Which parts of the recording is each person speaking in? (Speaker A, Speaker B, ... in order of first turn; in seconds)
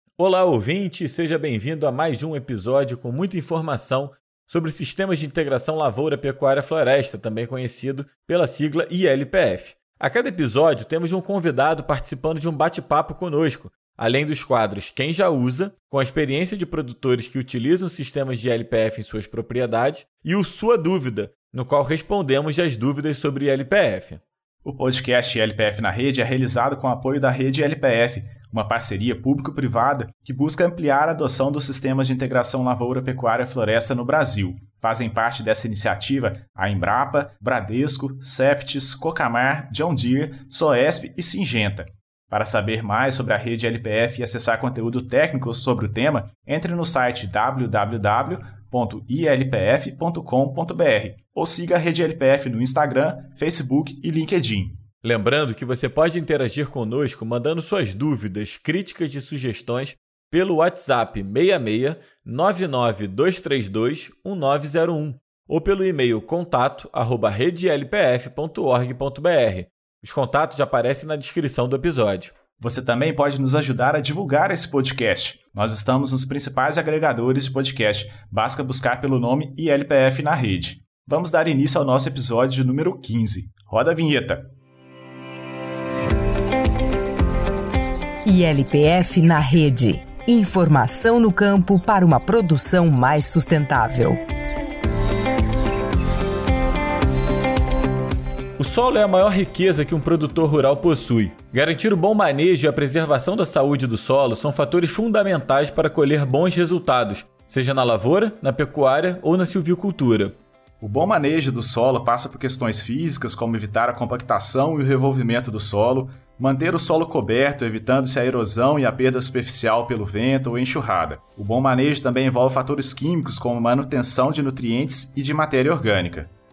Speaker A: 0.2-24.2, 55.0-72.3, 98.6-110.4
Speaker B: 24.6-54.8, 72.6-84.5, 110.8-126.3
Speaker C: 88.2-94.2